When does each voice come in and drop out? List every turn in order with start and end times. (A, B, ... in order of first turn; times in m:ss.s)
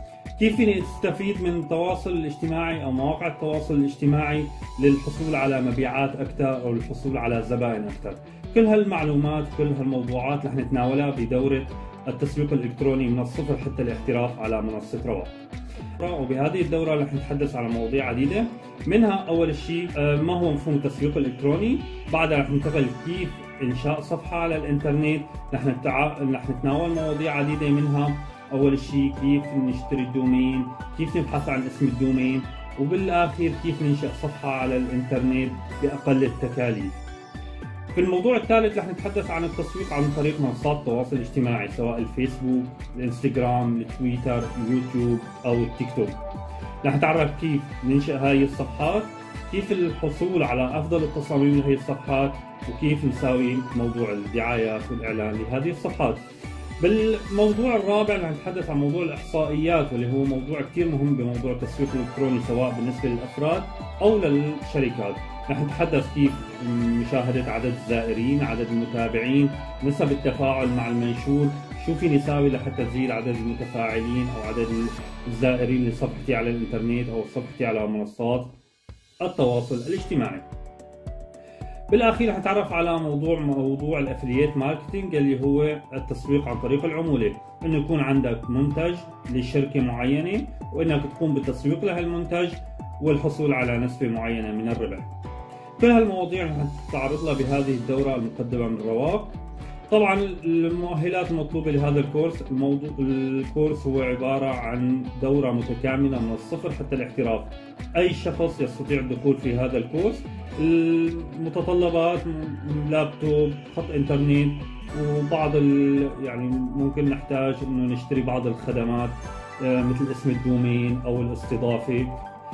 0:00.4-0:15.4 A
0:16.0-0:37.0 A
0:37.9-0:46.2 A
0:46.8-0:56.2 A
0:56.8-1:18.5 A
1:19.2-1:20.5 A
1:21.9-1:35.1 A
1:35.8-1:39.4 A
1:39.9-2:02.2 A